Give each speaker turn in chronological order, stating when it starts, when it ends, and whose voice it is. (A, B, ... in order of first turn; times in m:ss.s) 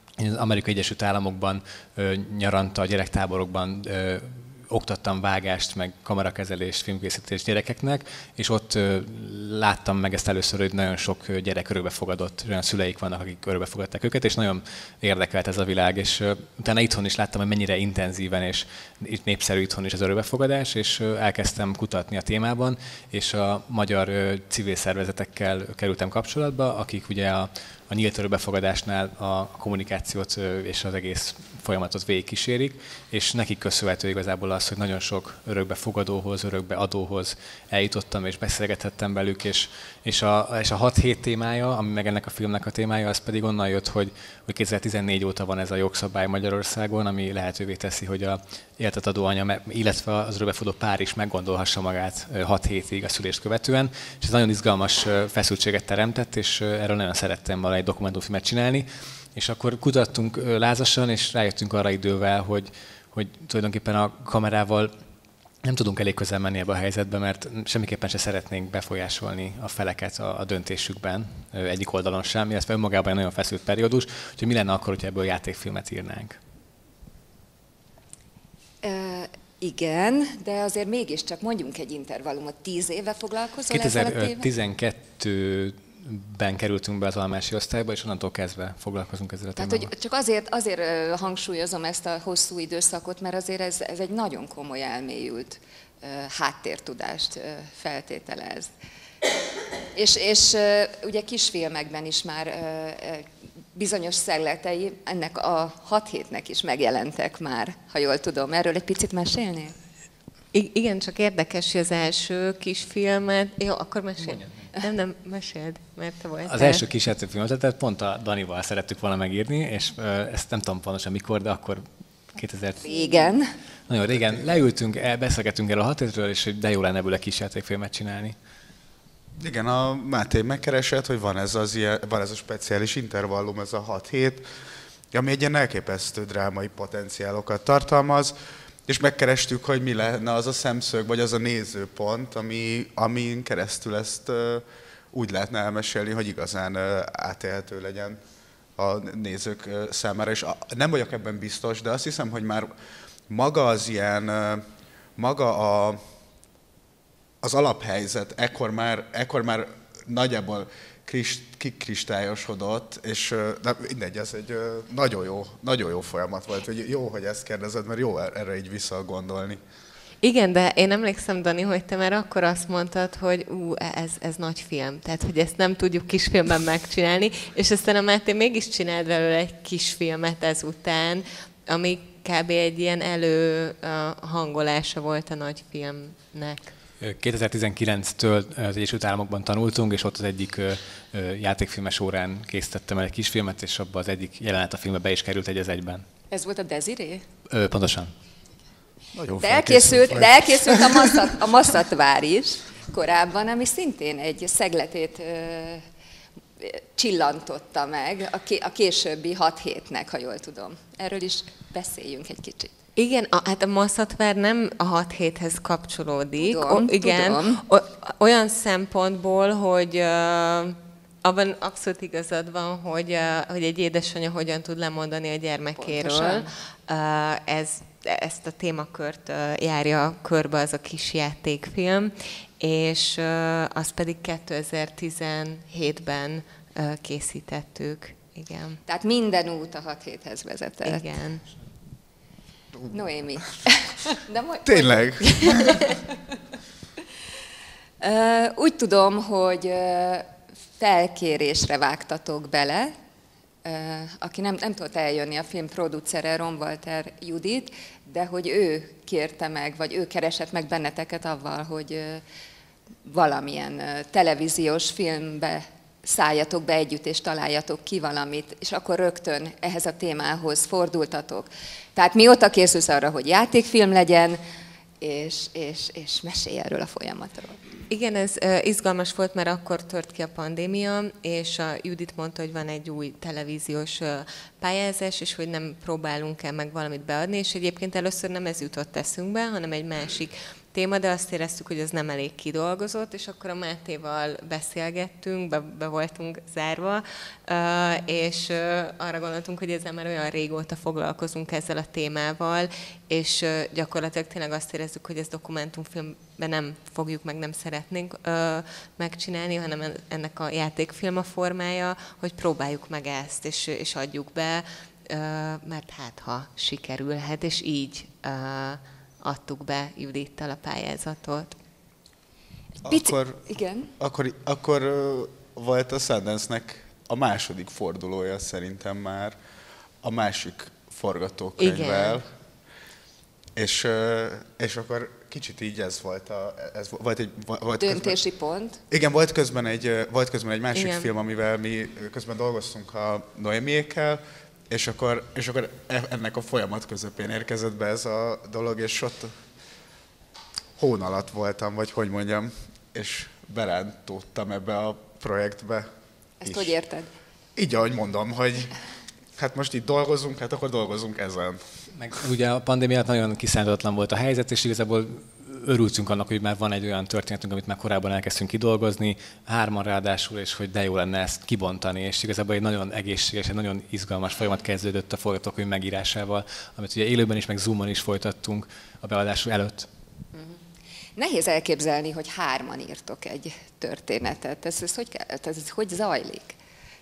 0:00.2-1:04.9 A
1:05.6-1:16.4 A
1:18.8-1:24.5 B
1:23.7-1:29.9 A
1:29.6-1:38.7 B
1:39.9-1:49.8 B
1:50.5-1:56.8 C
1:56.5-2:02.8 A
2:02.8-2:03.6 B
2:03.9-2:08.4 A
2:09.4-2:14.5 D
2:15.1-2:18.4 D
2:18.9-2:28.2 D
2:28.8-2:32.7 D
2:33.3-2:34.6 D
2:35.2-2:36.0 D
2:37.4-2:49.6 D
2:50.2-3:06.7 C
3:07.0-3:16.1 A
3:16.3-3:17.2 B
3:17.5-3:18.1 A
3:19.2-3:20.9 D
3:19.4-3:25.8 B
3:26.6-3:32.7 B
3:33.0-3:58.8 C
3:36.4-3:37.6 B
3:45.8-3:46.5 B
3:58.9-4:01.1 B
4:00.8-4:01.4 C
4:02.9-4:05.8 B
4:04.6-4:05.9 D
4:08.0-4:12.9 B
4:13.6-4:22.2 B
4:23.0-4:34.4 B
4:35.0-4:37.6 B
4:37.9-5:21.6 C
5:22.8-5:23.9 B
5:22.8-5:29.4 D
5:30.0-5:32.3 D
5:31.6-5:32.2 C
5:33.6-5:38.2 D
5:37.8-5:38.8 B
5:38.9-5:49.3 D
5:40.7-5:41.1 C
5:50.8-5:55.9 D
5:56.4-5:57.1 B
5:56.4-5:56.7 D
5:57.6-5:58.8 D
5:59.4-6:01.6 D
6:02.0-6:19.9 A
6:20.3-6:20.6 B
6:21.2-6:26.6 B